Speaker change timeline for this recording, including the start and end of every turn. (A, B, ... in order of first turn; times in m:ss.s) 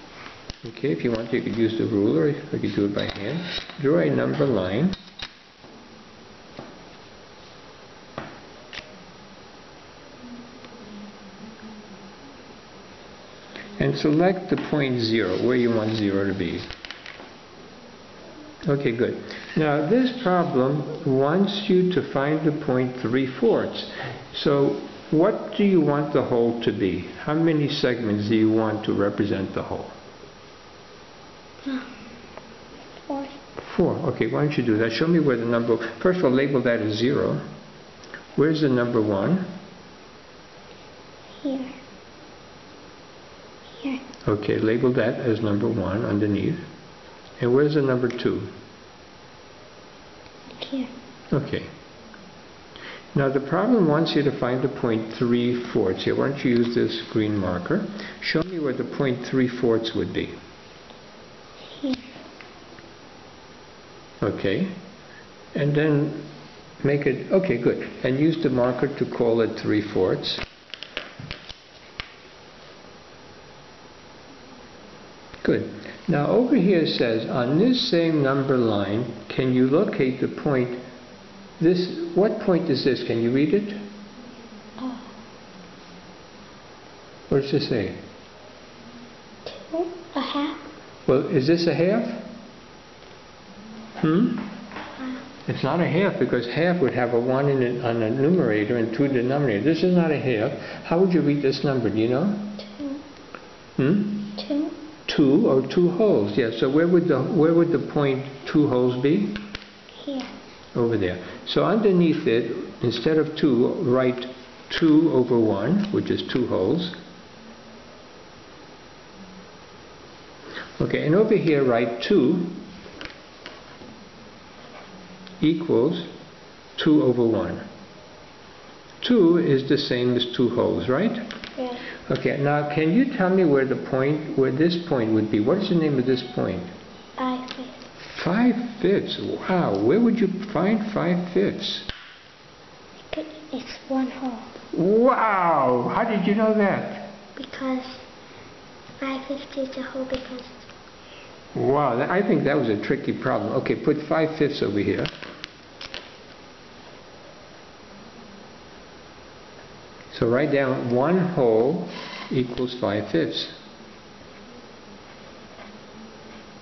0:00.6-0:05.0 A
0:13.8-0:16.7 A
0:18.7-0:29.9 A
0:33.1-0:33.4 B
0:33.6-0:37.4 A
0:38.4-0:39.5 A
0:41.4-0:41.8 B
0:43.8-0:44.0 B
0:44.2-0:46.6 A
0:47.4-0:48.5 A
0:50.6-0:50.9 B
0:51.3-0:51.7 A
0:53.1-1:00.3 A
1:01.7-1:02.1 B
1:04.2-1:04.7 A
1:05.5-1:06.3 A
1:06.8-1:10.4 A
1:15.4-1:20.8 A
1:21.6-1:23.8 A
1:24.8-1:25.1 B
1:27.3-1:28.0 A
1:29.5-1:30.6 B
1:31.1-1:32.3 A
1:34.0-1:34.5 A
1:35.4-1:42.6 A
1:42.6-1:43.0 B
1:43.8-1:44.4 A
1:44.4-1:44.8 B
1:45.1-1:49.4 A
1:50.0-1:50.3 B
1:50.7-1:57.0 A
2:00.8-2:02.6 A
2:05.4-2:06.1 A
2:06.8-2:07.6 A
2:09.0-2:11.2 A
2:11.6-2:11.8 B
2:12.1-2:16.7 A
2:17.2-2:17.8 B
2:18.0-2:21.9 A
2:23.1-2:24.5 B
2:24.7-2:27.1 A
2:27.4-2:28.1 B
2:29.0-2:30.6 B
2:31.5-2:35.1 A
2:40.1-2:43.6 A